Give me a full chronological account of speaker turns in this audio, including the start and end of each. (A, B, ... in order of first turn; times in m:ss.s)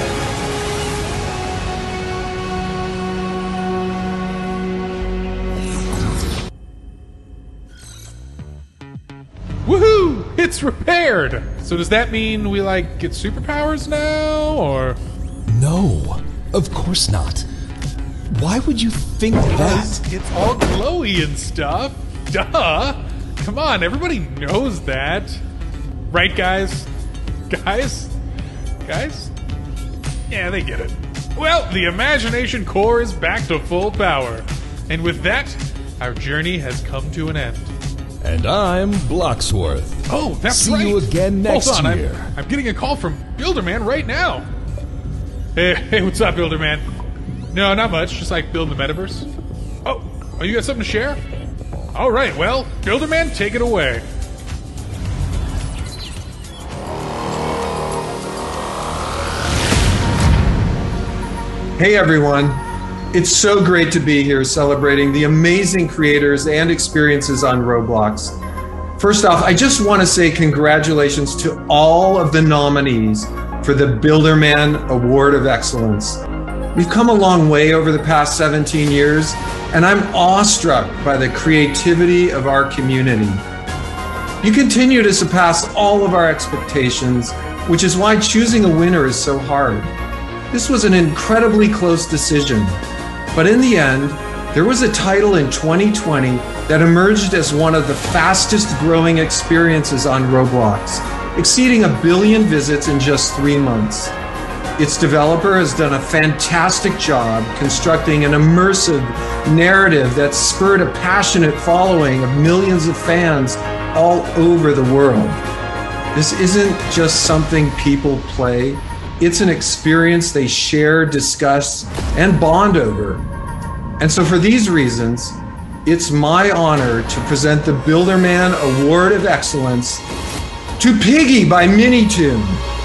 0:09.7-0:15.0 A
0:15.5-0:17.4 B
0:18.3-0:20.0 B
0:19.5-0:25.4 A
0:26.1-0:26.9 A
0:27.5-0:28.1 A
0:28.8-0:29.3 A
0:30.3-0:37.7 A
0:38.2-0:42.3 B
0:40.1-0:44.5 A
0:45.6-0:46.8 A
0:47.5-0:49.3 A
0:49.8-0:51.2 A
0:51.9-0:54.0 A
1:01.8-1:08.4 C
1:09.0-1:16.2 C
1:16.8-1:23.4 C
1:24.4-1:29.9 C
1:30.5-1:32.8 C
1:33.3-1:44.2 C
1:44.8-1:55.4 C
1:56.1-2:03.3 C
2:04.0-2:10.1 C
2:10.8-2:12.6 C